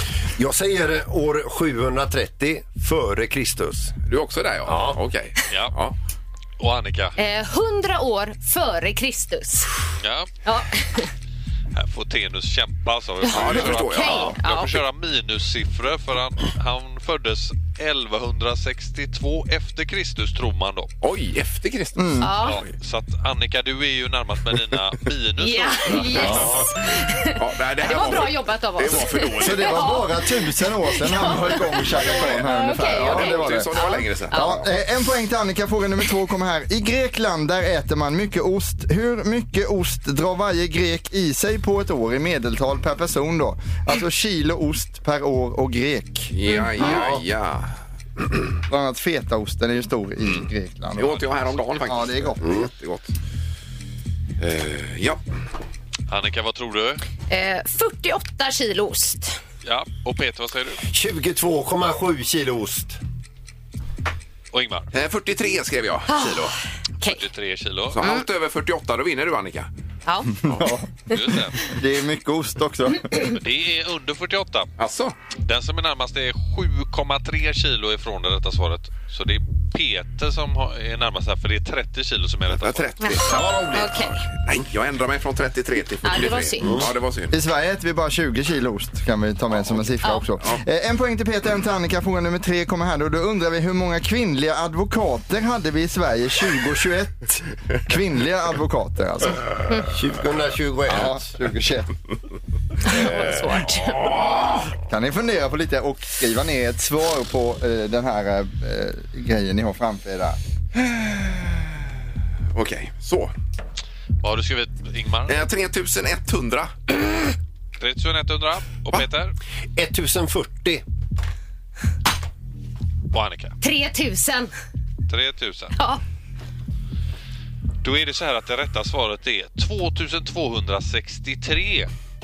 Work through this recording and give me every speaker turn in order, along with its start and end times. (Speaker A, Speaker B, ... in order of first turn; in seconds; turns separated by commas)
Speaker A: 0.4-4.0, Speaker B: 4.1-6.0, Speaker A: 4.7-5.0, Speaker C: 6.6-7.2, Speaker D: 7.2-9.7, Speaker C: 10.0-10.3, Speaker D: 10.4-11.1, Speaker C: 11.8-20.9, Speaker D: 13.2-14.8, Speaker B: 13.3-14.4, Speaker B: 21.0-22.5, Speaker E: 22.0-22.3, Speaker D: 22.2-22.6, Speaker C: 22.4-26.6, Speaker D: 25.4-34.6, Speaker B: 27.3-29.9, Speaker E: 29.4-33.7, Speaker B: 32.9-34.5, Speaker E: 34.3-46.3, Speaker B: 46.3-47.7, Speaker D: 46.5-46.9, Speaker A: 46.8-47.2, Speaker E: 48.7-51.2, Speaker B: 50.3-53.1, Speaker E: 51.9-52.5, Speaker A: 52.4-52.7, Speaker B: 54.4-55.2, Speaker C: 56.1-57.0, Speaker D: 57.3-59.4, Speaker C: 59.6-60.8, Speaker A: 60.9-63.0, Speaker C: 64.5-64.9, Speaker B: 64.9-66.6, Speaker D: 66.1-67.2, Speaker C: 67.0-68.0, Speaker B: 67.9-69.7, Speaker D: 70.1-70.3, Speaker E: 70.5-70.9, Speaker C: 71.1-71.6, Speaker E: 71.7-73.3, Speaker C: 73.3-74.7, Speaker B: 74.8-75.2, Speaker C: 75.5-83.2, Speaker B: 82.5-87.3, Speaker D: 83.0-84.2, Speaker A: 83.2-84.0, Speaker D: 86.0-86.8, Speaker A: 86.6-86.9, Speaker E: 87.3-99.5, Speaker A: 99.9-101.2, Speaker E: 100.9-101.9, Speaker D: 102.8-104.1, Speaker A: 102.9-103.4, Speaker B: 104.0-104.6, Speaker E: 104.9-110.4, Speaker B: 110.8-111.6, Speaker B: 112.5-113.3, Speaker C: 114.2-115.5, Speaker B: 115.3-116.8, Speaker C: 117.8-119.3, Speaker A: 119.8-120.8, Speaker C: 123.1-123.6, Speaker D: 123.6-124.5, Speaker C: 125.1-125.8, Speaker C: 127.8-131.9